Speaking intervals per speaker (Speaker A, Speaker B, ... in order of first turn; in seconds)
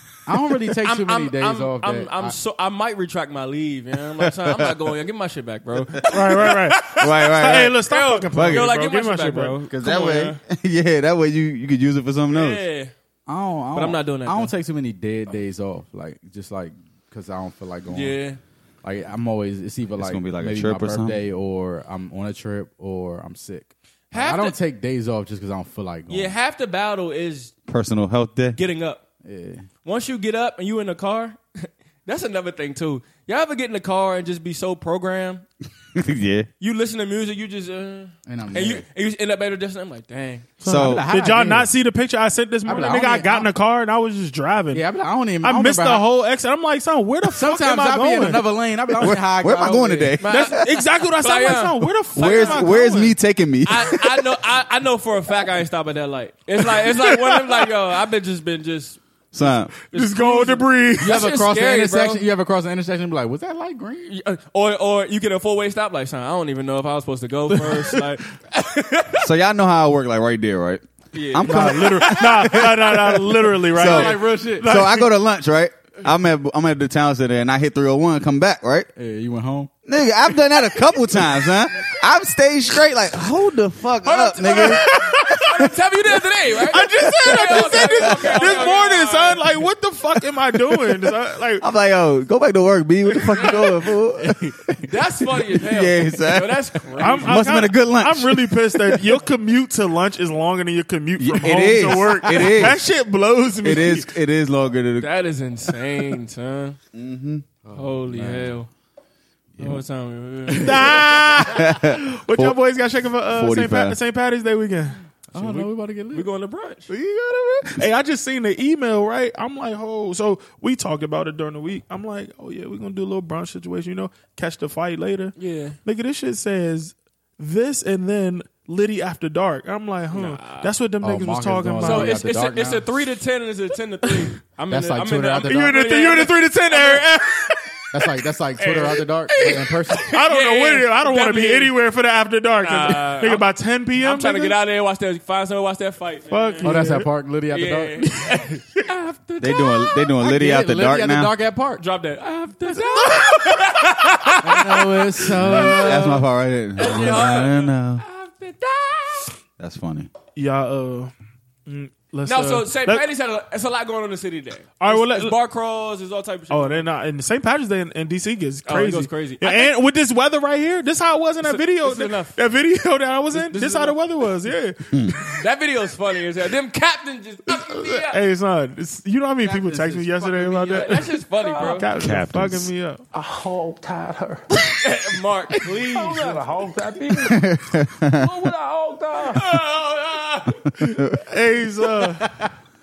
Speaker A: 0.2-2.3, 13.3-18.2, 18.8-26.3, 29.2-29.7, 38.3-38.8, 40.6-41.7, 42.7-43.5, 44.7-46.0, 47.3-50.1, 61.0-64.1, 73.7-74.8, 79.0-79.7, 94.2-94.7, 107.6-108.5, 109.6-109.8, 110.5-111.0, 115.3-116.3, 131.0-132.8, 134.7-135.8, 137.9-140.1, 146.6-151.8, 154.4-156.2, 179.5-180.0, 192.2-192.5
Speaker B: 0.8-7.1, 7.9-10.4, 12.3-12.9, 13.7-14.5, 17.9-18.4, 24.1-24.6, 26.1-27.5, 28.5-29.0, 29.8-35.4, 36.6-40.5, 50.2-50.6, 51.2-52.7, 53.6-62.2, 64.0-69.3, 71.1-72.5, 84.0-89.5, 94.8-97.4, 105.0-106.8, 107.7-108.7, 109.6-111.2, 115.3-116.9, 125.4-125.8, 130.1-130.7, 131.8-137.2, 138.6-141.8, 142.6-146.7, 147.5-148.6, 151.8-156.1, 156.8-159.3, 162.2-166.9, 168.7-169.7, 171.4-172.4, 173.3-174.0, 175.4-178.2, 179.4-181.9, 184.8-186.4, 189.3-190.6
Speaker C: 4.2-4.7, 6.8-8.7, 9.7-12.6, 19.9-21.2, 27.7-28.6, 35.9-36.5, 40.6-41.0, 49.0-50.8, 52.1-54.2, 59.3-59.7, 69.2-78.9, 79.8-85.5, 86.9-88.6, 91.6-94.8, 95.5-98.9, 101.2-102.8, 103.6-105.1, 106.9-107.4, 111.4-112.6, 113.3-114.0, 116.9-117.8, 149.4-151.3, 155.3-158.0, 159.6-160.1, 182.0-182.7, 187.2-188.5, 190.8-191.2
Speaker D: 6.1-9.6, 40.6-44.8, 45.4-48.5, 50.3-53.1, 57.3-57.6, 59.9-61.2, 67.5-68.1, 71.5-75.1, 84.5-85.5, 86.5-91.6, 97.0-104.1, 110.6-115.0, 117.6-125.3, 125.8-132.2, 135.5-138.1, 139.4-144.6, 146.3-147.1, 160.3-161.1, 161.7-163.0, 164.8-165.3, 166.5-175.3, 177.5-183.0, 190.9-192.3
Speaker E: 181.3-181.9, 183.1-184.4, 185.5-187.4, 188.1-189.5